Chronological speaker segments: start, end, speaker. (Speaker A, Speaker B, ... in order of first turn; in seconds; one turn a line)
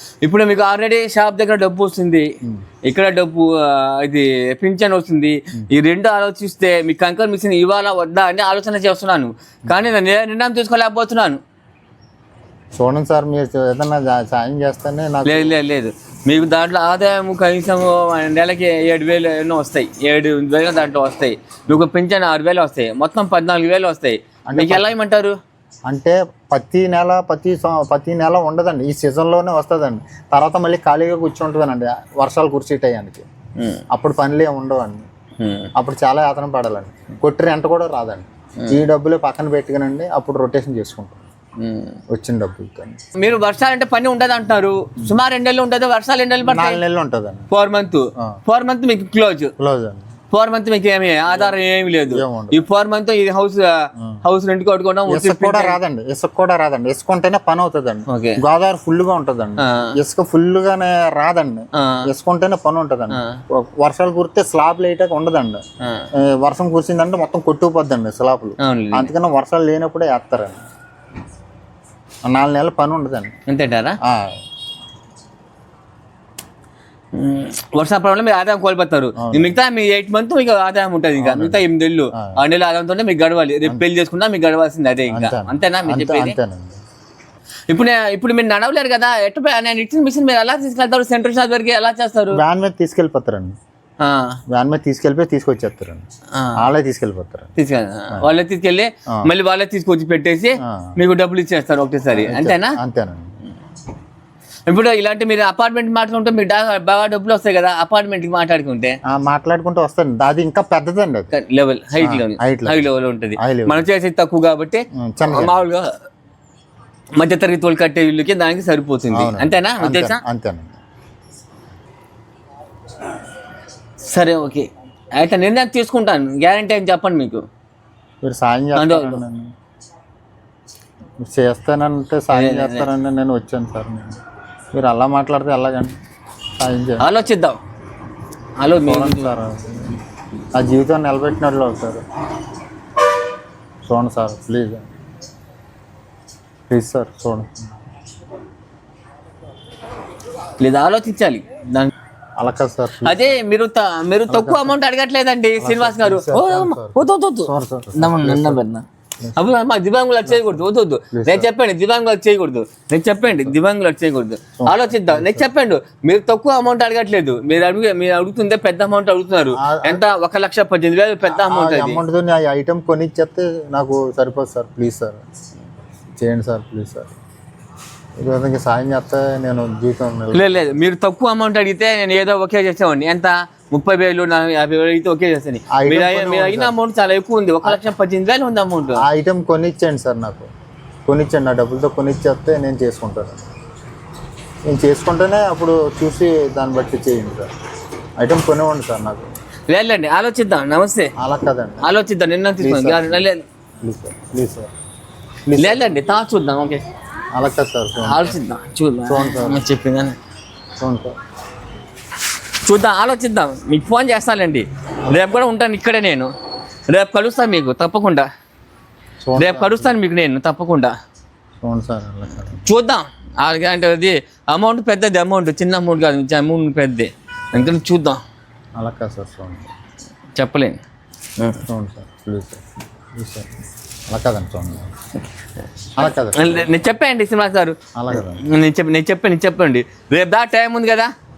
Speaker A: 0.2-2.3
Speaker A: 2.9-11.4
Speaker B: 12.7-15.5
Speaker A: 15.2-25.4
Speaker B: 24.5-24.9
Speaker B: 25.9-33.3
Speaker A: 33.6-33.8
Speaker B: 33.9-35.1
Speaker A: 35.4-35.7
Speaker B: 35.8-41.3
Speaker A: 41.6-42.0
Speaker B: 42.1-43.0
Speaker A: 43.2-46.8
Speaker B: 46.4-47.5
Speaker A: 47.5-49.5
Speaker B: 49.6-50.1
Speaker A: 50.3-55.8
Speaker B: 52.1-52.6
Speaker B: 55.1-65.6
Speaker A: 58.1-58.4
Speaker A: 59.6-59.9
Speaker A: 61.8-62.0
Speaker A: 63.1-63.4
Speaker B: 66.1-70.7
Speaker A: 68.6-69.1
Speaker B: 72.2-73.3
Speaker A: 73.5-74.0
Speaker B: 74.0-74.4
Speaker A: 77.1-86.4
Speaker B: 79.2-79.5
Speaker B: 81.2-82.4
Speaker B: 85.1-86.8
Speaker A: 87.7-92.4
Speaker B: 92.3-93.6
Speaker A: 94.0-94.4
Speaker B: 94.5-96.0
Speaker A: 96.3-96.6
Speaker B: 96.6-97.5
Speaker A: 97.6-102.8
Speaker B: 100.6-101.0
Speaker B: 102.1-103.3
Speaker A: 104.7-109.0
Speaker B: 109.0-111.3
Speaker A: 111.3-115.9
Speaker B: 112.0-113.9
Speaker B: 114.9-115.6
Speaker A: 117.2-120.2
Speaker B: 119.1-120.8
Speaker A: 124.0-127.4
Speaker B: 128.2-129.5
Speaker A: 128.8-129.2
Speaker B: 131.2-134.2
Speaker A: 132.3-132.9
Speaker B: 134.7-135.9
Speaker B: 136.6-137.1
Speaker A: 137.0-137.6
Speaker A: 138.6-139.3
Speaker B: 138.8-139.9
Speaker B: 140.5-142.0
Speaker B: 143.8-144.9
Speaker B: 146.7-147.5
Speaker A: 150.6-151.9
Speaker B: 152.4-153.4
Speaker A: 153.0-158.8
Speaker B: 154.3-154.8
Speaker B: 155.6-158.6
Speaker B: 159.2-159.4
Speaker A: 159.3-172.0
Speaker B: 160.2-161.5
Speaker B: 164.6-165.5
Speaker B: 169.6-170.0
Speaker B: 171.3-175.2
Speaker B: 176.2-177.2
Speaker B: 178.2-180.7
Speaker A: 180.3-189.0
Speaker B: 185.7-186.7
Speaker B: 189.0-190.5
Speaker B: 191.1-193.5
Speaker B: 194.7-197.5
Speaker B: 198.2-199.3
Speaker A: 199.7-201.1
Speaker B: 201.2-201.8
Speaker A: 201.8-203.4
Speaker B: 202.6-203.2
Speaker B: 203.8-204.7
Speaker B: 205.5-206.0
Speaker A: 205.6-206.8
Speaker B: 207.3-208.4
Speaker A: 208.0-210.2
Speaker B: 209.1-209.6
Speaker B: 210.8-211.1
Speaker A: 212.6-216.3
Speaker A: 216.9-218.3
Speaker B: 219.2-219.9
Speaker A: 219.4-220.9
Speaker B: 221.6-222.6
Speaker A: 222.6-228.2
Speaker B: 228.8-229.7
Speaker A: 230.3-230.8
Speaker A: 231.4-231.6
Speaker B: 231.6-232.6
Speaker B: 233.1-233.5
Speaker B: 234.1-234.9
Speaker B: 236.0-236.7
Speaker A: 236.3-241.1
Speaker B: 237.9-238.4